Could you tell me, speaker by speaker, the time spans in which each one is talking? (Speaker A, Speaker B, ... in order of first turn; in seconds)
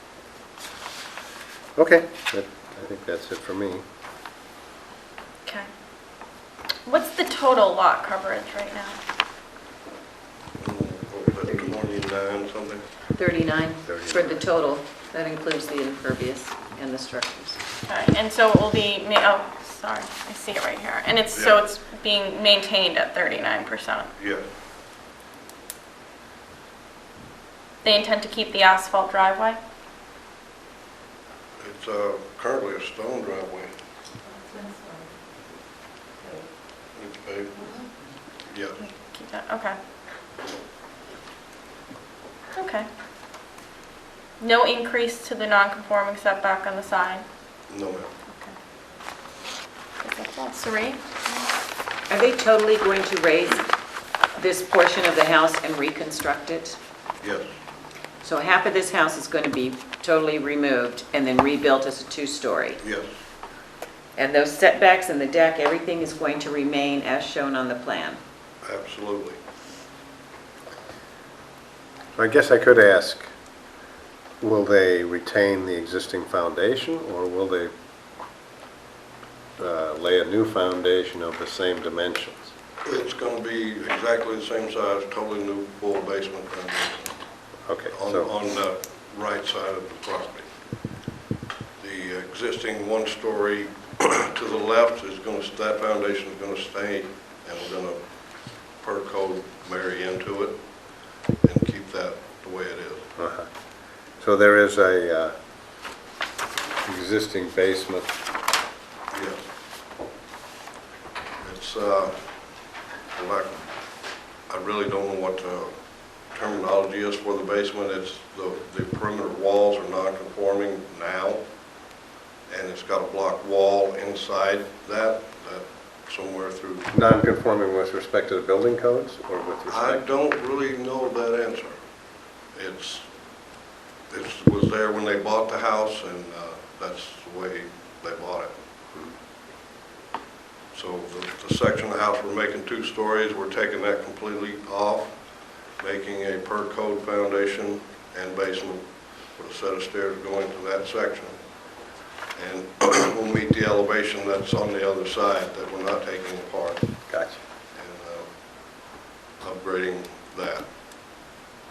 Speaker A: 1.8-3.8, 13.8-14.4, 72.2-73.3, 74.4-77.7, 79.6-82.5, 87.7-88.3, 103.2-103.5, 104.2-105.3, 106.8-108.1, 126.9-130.1, 157.1-157.4
Speaker B: 6.8-9.0, 17.9-24.1, 27.8-29.6, 38.8-39.8, 42.5-42.9, 44.4-47.2, 50.0-51.6
Speaker C: 10.6-12.9, 24.2-24.4, 31.6-33.7, 37.0-37.6, 38.5-38.8, 47.7-48.1, 57.2-57.5, 62.8-63.1, 68.6-69.4, 82.8-87.1, 87.9-90.5, 91.8-98.0, 98.8-100.6, 101.4-103.1, 109.1-109.4, 111.4-112.2, 113.1-113.6, 114.5-115.7, 116.3-121.4, 122.5-126.9, 129.7-131.8, 132.6-133.1, 134.1-138.5, 140.7-145.1, 145.8-151.3, 152.4-156.9, 157.8-158.3, 159.4-160.7
Speaker D: 13.2-17.6, 52.1-53.7, 54.4-56.8, 58.2-62.8, 64.2-68.2